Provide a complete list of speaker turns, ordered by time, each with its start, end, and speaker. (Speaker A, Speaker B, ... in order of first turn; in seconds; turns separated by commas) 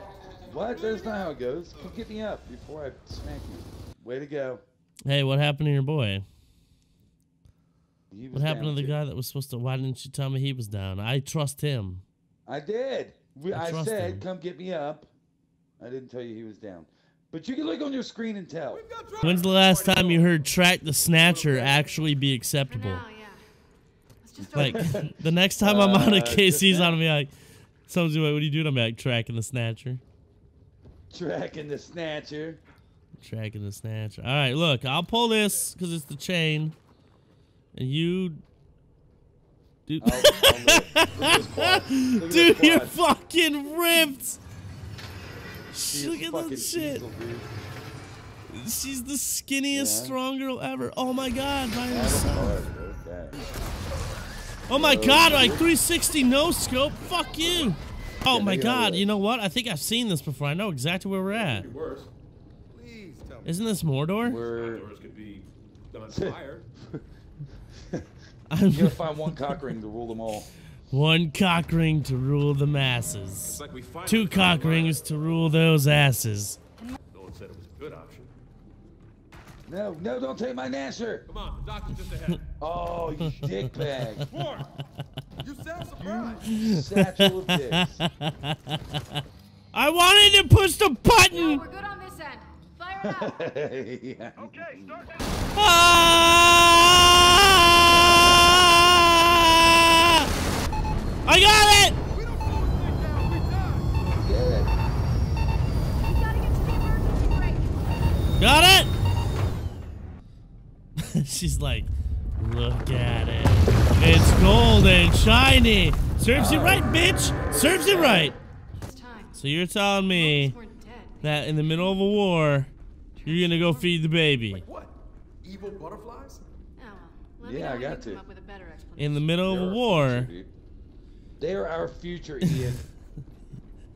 Speaker A: 0.4-4.6, Speaker B: 5.0-6.2, Speaker A: 8.1-9.0, Speaker B: 8.3-12.0, Speaker A: 12.4-15.1, Speaker B: 13.5-14.2, Speaker A: 15.8-18.8, Speaker C: 18.7-20.4, Speaker B: 19.2-23.0, Speaker C: 21.2-21.9, Speaker D: 22.7-23.4, Speaker D: 24.2-25.0, Speaker A: 24.5-27.0, Speaker B: 24.5-27.3, Speaker B: 27.8-30.0, Speaker A: 31.1-32.6, Speaker B: 33.2-36.7, Speaker B: 37.7-38.4, Speaker B: 39.9-44.4, Speaker A: 40.0-43.0, Speaker B: 45.7-47.0, Speaker A: 45.8-47.5, Speaker B: 48.5-52.6, Speaker A: 49.7-50.2, Speaker A: 51.9-53.4, Speaker B: 54.7-61.7, Speaker A: 54.7-55.7, Speaker A: 58.2-59.1, Speaker C: 61.3-62.1, Speaker C: 62.7-63.5, Speaker B: 63.4-64.4, Speaker A: 64.2-64.9, Speaker C: 64.5-66.7, Speaker A: 66.1-67.0, Speaker B: 68.5-69.7, Speaker A: 68.7-70.5, Speaker B: 70.9-76.6, Speaker C: 73.4-75.0, Speaker C: 77.1-78.3, Speaker A: 79.7-81.3, Speaker C: 81.3-82.5, Speaker A: 82.6-84.3, Speaker B: 83.2-84.3, Speaker C: 84.3-84.7, Speaker C: 85.4-86.5, Speaker A: 86.0-88.0, Speaker B: 86.5-89.0, Speaker B: 89.7-91.6, Speaker D: 91.3-93.5, Speaker A: 93.0-95.0, Speaker C: 94.4-94.9, Speaker B: 95.5-100.3, Speaker B: 101.2-102.0, Speaker C: 102.1-104.1, Speaker A: 104.0-104.7, Speaker D: 106.0-108.1, Speaker B: 108.4-108.9, Speaker B: 111.0-118.3, Speaker A: 116.3-116.9, Speaker A: 117.4-118.3, Speaker D: 118.8-119.4, Speaker B: 119.3-120.5, Speaker D: 120.1-121.3, Speaker B: 121.2-122.7, Speaker D: 123.2-123.9, Speaker B: 123.2-124.6, Speaker C: 124.5-126.4, Speaker D: 126.8-129.4, Speaker A: 127.4-128.2, Speaker B: 129.0-130.3, Speaker A: 129.4-130.5, Speaker A: 131.4-132.8